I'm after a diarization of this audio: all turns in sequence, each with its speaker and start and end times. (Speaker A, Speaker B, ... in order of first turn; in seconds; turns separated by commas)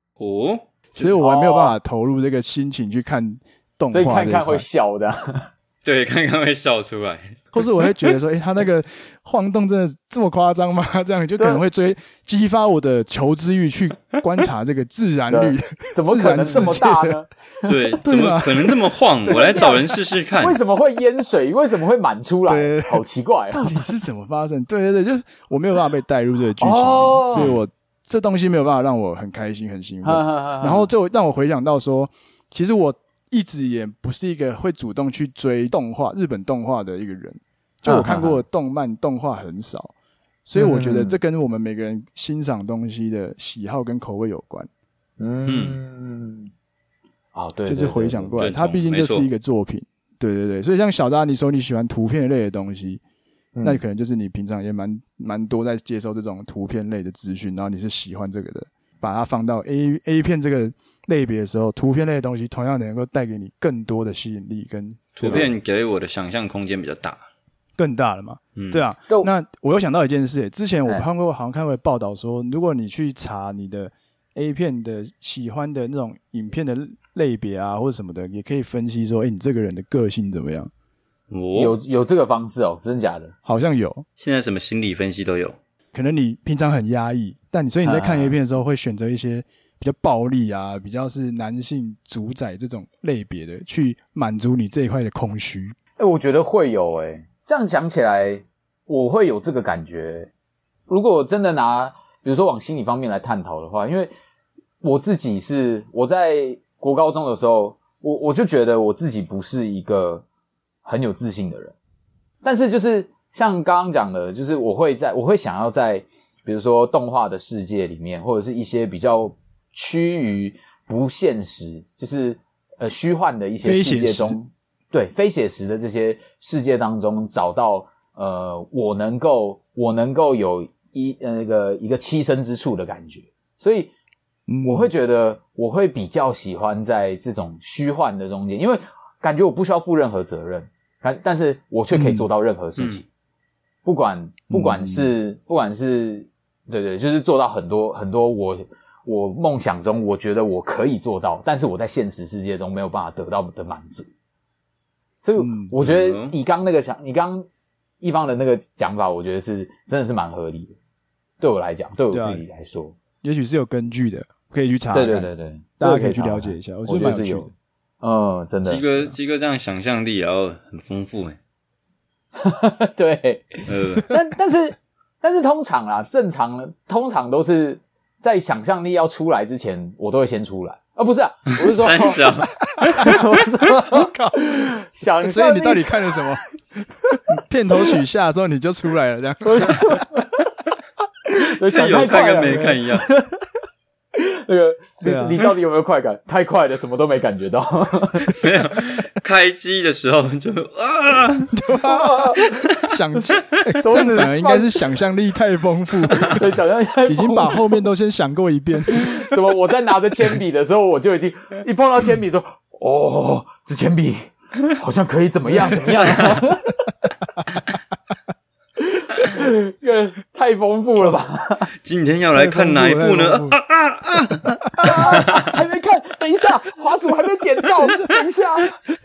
Speaker A: 0.2-1.1, Speaker B: 0.9-4.7, Speaker C: 1.2-1.8, Speaker C: 3.9-5.5, Speaker A: 5.8-7.6, Speaker B: 7.5-17.2, Speaker C: 11.4-11.6, Speaker C: 15.3-17.9, Speaker A: 17.6-20.6, Speaker B: 18.0-18.8, Speaker C: 19.3-23.8, Speaker B: 22.5-39.9, Speaker C: 26.6-27.5, Speaker A: 27.3-27.6, Speaker C: 30.0-30.9, Speaker C: 37.9-38.4, Speaker B: 40.5-44.7, Speaker C: 40.6-41.2, Speaker C: 45.2-46.5, Speaker A: 45.5-45.8, Speaker C: 47.4-48.4, Speaker B: 47.7-53.0, Speaker A: 48.4-49.3, Speaker C: 53.5-53.8, Speaker B: 53.6-65.5, Speaker A: 65.2-67.2, Speaker B: 67.8-80.7, Speaker A: 68.6-68.8, Speaker A: 81.3-81.8, Speaker C: 81.5-83.3, Speaker B: 83.5-84.0, Speaker A: 84.2-85.6, Speaker B: 85.9-95.8, Speaker C: 87.8-88.4, Speaker C: 96.0-100.3, Speaker C: 100.9-104.1, Speaker C: 104.8-110.2, Speaker C: 110.8-111.8, Speaker C: 112.4-133.9, Speaker B: 123.6-124.4, Speaker B: 134.5-134.9, Speaker C: 134.6-143.1, Speaker B: 141.9-142.3, Speaker A: 142.8-143.0, Speaker C: 143.8-154.1, Speaker B: 144.5-145.1, Speaker C: 155.2-157.5, Speaker B: 155.4-155.7, Speaker A: 155.8-156.4, Speaker C: 158.0-160.8, Speaker C: 161.4-163.0, Speaker B: 162.1-162.4, Speaker B: 163.2-165.3, Speaker C: 164.9-167.5, Speaker B: 165.8-167.5, Speaker C: 168.0-168.8, Speaker A: 168.7-171.4, Speaker C: 172.4-182.3, Speaker A: 173.7-174.1, Speaker A: 181.6-183.2, Speaker B: 182.8-183.2, Speaker C: 182.9-186.2, Speaker B: 183.9-190.0, Speaker C: 189.4-190.5, Speaker C: 191.3-193.5, Speaker A: 191.7-193.1, Speaker C: 194.2-198.4, Speaker B: 195.0-195.4, Speaker A: 198.3-201.5, Speaker B: 201.5-206.5, Speaker C: 201.8-204.8, Speaker C: 206.2-207.8, Speaker B: 207.1-209.3, Speaker C: 208.9-216.9, Speaker A: 215.9-216.4, Speaker C: 218.9-221.7, Speaker A: 221.8-224.5, Speaker B: 222.3-223.6, Speaker B: 224.5-225.1, Speaker C: 224.8-228.8, Speaker A: 225.1-225.5